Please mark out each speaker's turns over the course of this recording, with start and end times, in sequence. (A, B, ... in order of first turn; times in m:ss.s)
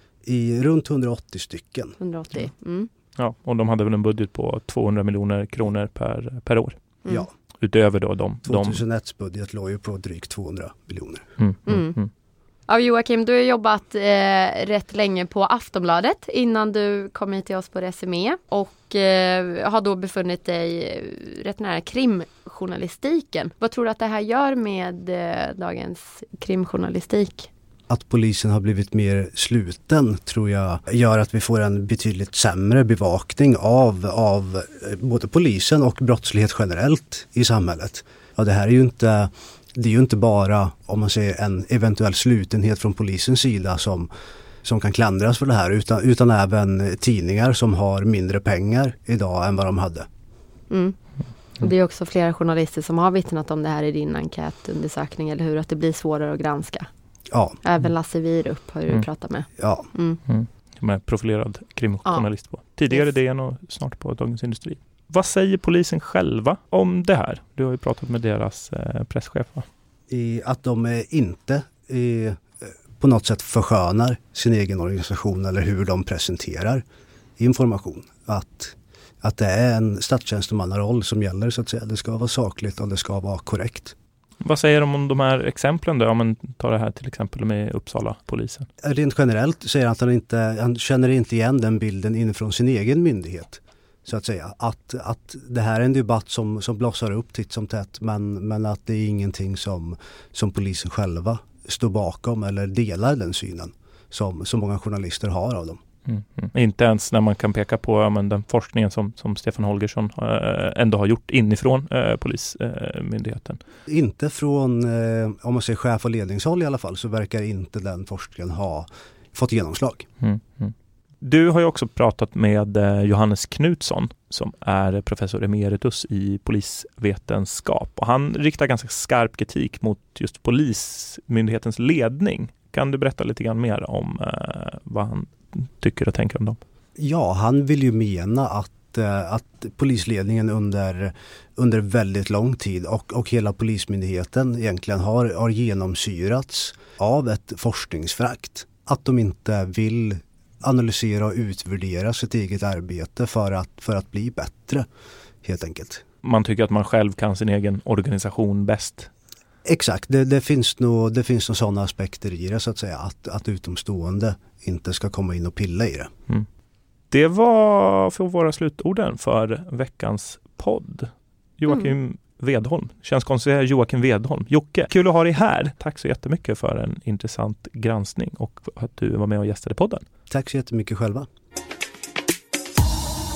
0:00.2-0:02.0 A
0:02.0-0:02.9 B
0:03.2-0:06.8 C
0:07.6-0:08.8 C
0:08.4-0:11.3 A
0:11.4-0:12.1 C
0:11.7-0:12.0 B
0:12.7-0:27.5 B
0:27.9-0:44.1 A
0:44.6-0:50.1 A
0:50.7-0:51.0 B
0:51.6-0:56.9 B
0:57.3-0:57.6 A
0:57.6-1:00.2 B
0:59.6-0:59.9 A
1:00.3-1:09.7 C
1:10.1-1:16.8 A
1:17.4-1:24.0 A
1:24.4-1:28.7 C
1:28.8-1:45.8 A
1:46.1-1:53.6 C
1:53.9-2:00.1 A
2:00.2-2:16.6 C
2:17.0-2:34.9 A
2:35.4-2:36.0 A
2:36.2-2:39.1 C
2:39.6-2:46.1 A
2:47.1-3:00.0 C
3:00.3-3:01.3 A